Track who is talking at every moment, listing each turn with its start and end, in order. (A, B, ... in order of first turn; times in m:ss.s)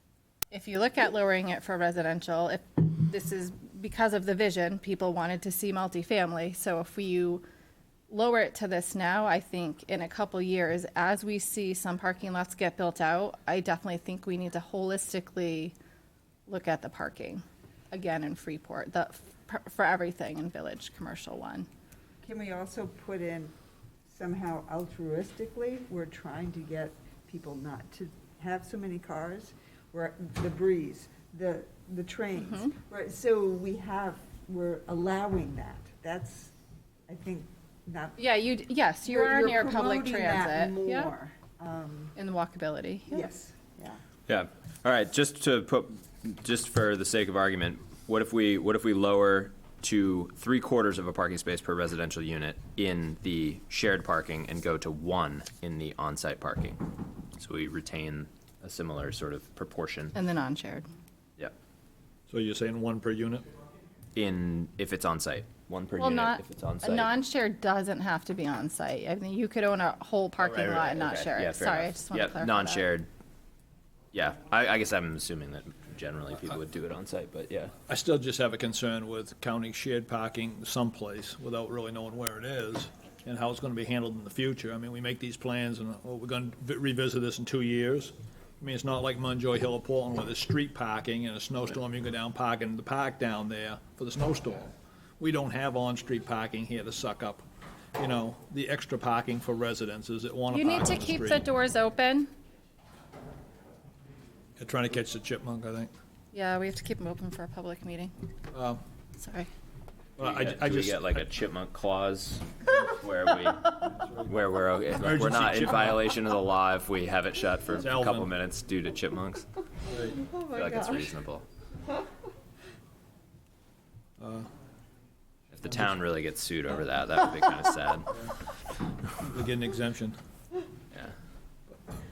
0:00.5-0:07.4 A
0:08.1-0:15.7 A
0:16.5-0:21.7 A
0:22.2-0:23.5 B
0:24.0-0:36.5 B
0:32.5-0:32.7 A
0:37.1-0:38.3 B
0:38.2-0:41.1 A
0:39.0-0:42.1 B
0:42.1-0:43.2 A
0:43.1-0:44.0 B
0:44.3-0:56.8 C
0:57.4-1:00.1 C
1:00.1-1:00.8 A
1:02.3-1:03.4 D
1:04.1-1:07.1 C
1:06.0-1:12.8 A
1:10.4-1:13.1 C
1:14.1-1:17.7 C
1:17.9-1:37.4 D
1:38.0-1:41.4 D
1:40.5-1:42.3 A
1:44.6-1:45.9 D
1:46.3-1:48.1 A
1:48.5-1:48.8 D
1:49.2-1:49.5 A
1:50.2-1:51.1 D
1:50.2-1:59.4 C
1:55.0-1:56.0 D
1:57.8-1:58.3 D
2:00.0-2:01.1 B
2:00.4-2:01.4 C
2:04.2-2:04.5 D
2:05.5-2:08.3 C
2:09.2-2:10.2 D